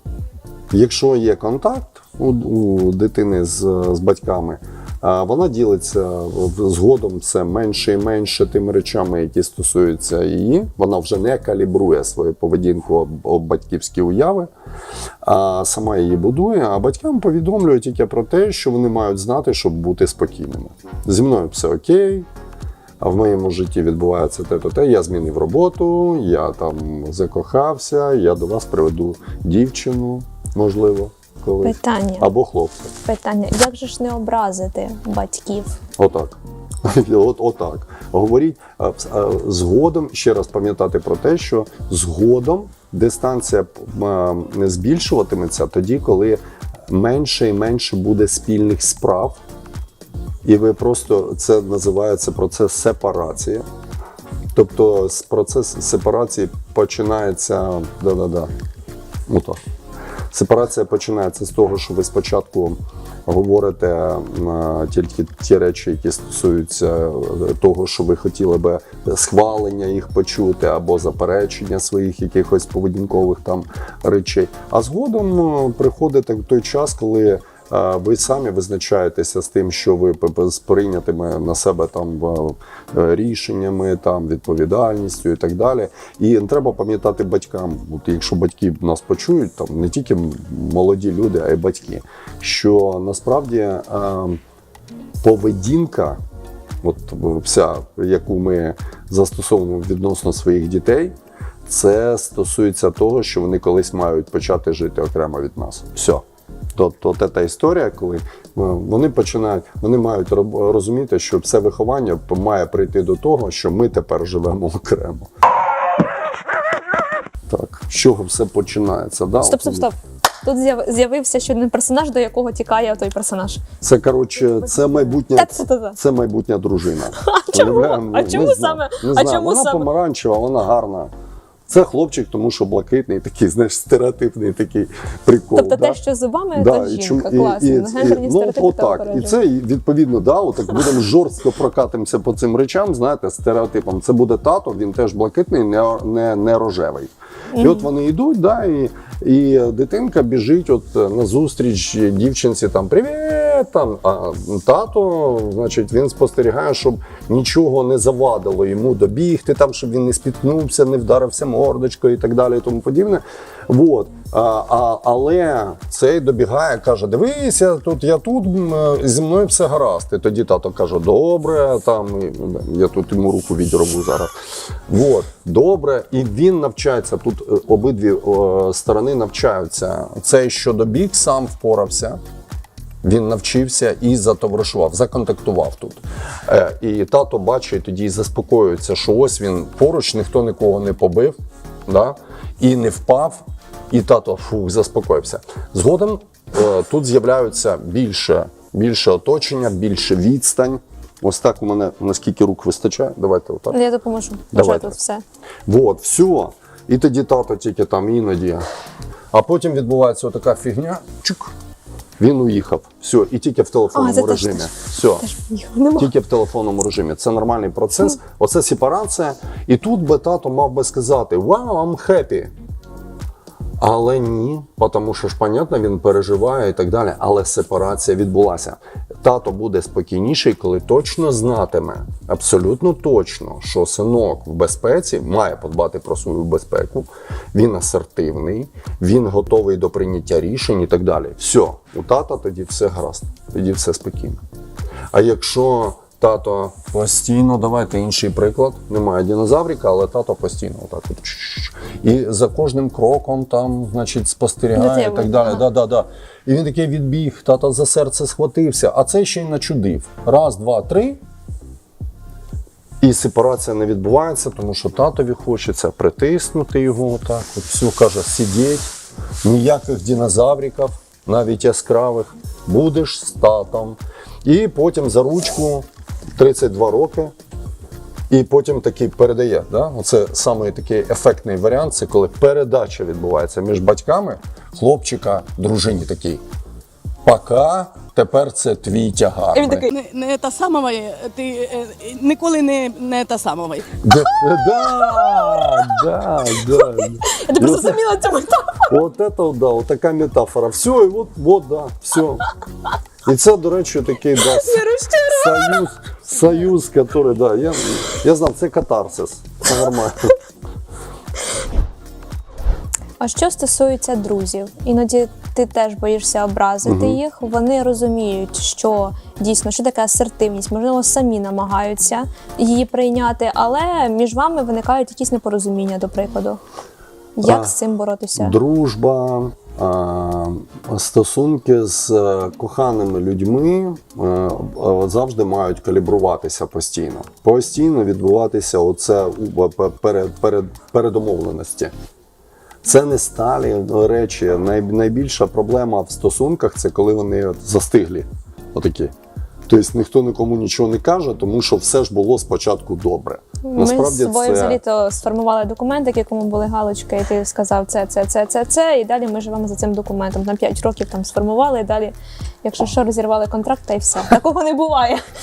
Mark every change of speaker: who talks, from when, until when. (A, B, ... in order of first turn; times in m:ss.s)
0:00.7-0:14.5 A
0:15.2-0:22.3 A
0:23.0-0:32.9 A
0:31.6-0:32.3 B
0:33.0-0:35.8 B
0:36.0-0:49.4 A
0:50.4-0:53.6 A
0:54.5-0:58.5 A
0:59.3-0:59.6 A
1:00.3-1:34.4 A
1:35.2-1:36.2 A
1:36.8-1:46.2 A
1:46.8-1:55.3 A
1:57.5-1:59.9 A
1:59.4-2:03.6 B
2:03.8-2:11.1 A
2:05.3-2:06.0 B
2:07.2-2:09.9 B
2:11.7-2:16.0 A
2:15.6-2:19.4 B
2:16.6-2:54.3 A
2:27.5-2:27.9 B
2:54.9-3:02.2 A
3:03.0-3:23.8 A
3:23.7-3:25.2 B
3:24.5-3:25.0 A
3:25.7-3:28.6 A
3:29.3-3:31.5 A
3:32.2-3:35.2 A
3:34.0-3:36.1 B
3:36.0-3:42.5 A
3:43.8-4:04.4 A
4:05.1-4:21.2 A
4:14.7-4:15.6 B
4:23.0-4:28.9 A
4:29.4-4:37.4 A
4:38.3-4:46.4 A
4:47.2-4:49.9 A
4:49.5-4:49.9 B
4:49.9-4:54.0 C
4:54.0-4:58.0 A
4:55.2-4:55.6 B
4:56.9-4:59.0 B
4:58.9-5:02.5 A
5:03.3-5:10.4 A
5:04.6-5:05.8 B
5:13.2-5:26.6 B
5:16.8-5:17.2 A
5:27.4-5:28.6 B
5:27.4-5:27.8 A
5:28.4-5:41.9 A
5:42.8-5:49.1 A
5:49.7-5:54.8 A
5:53.7-6:05.2 B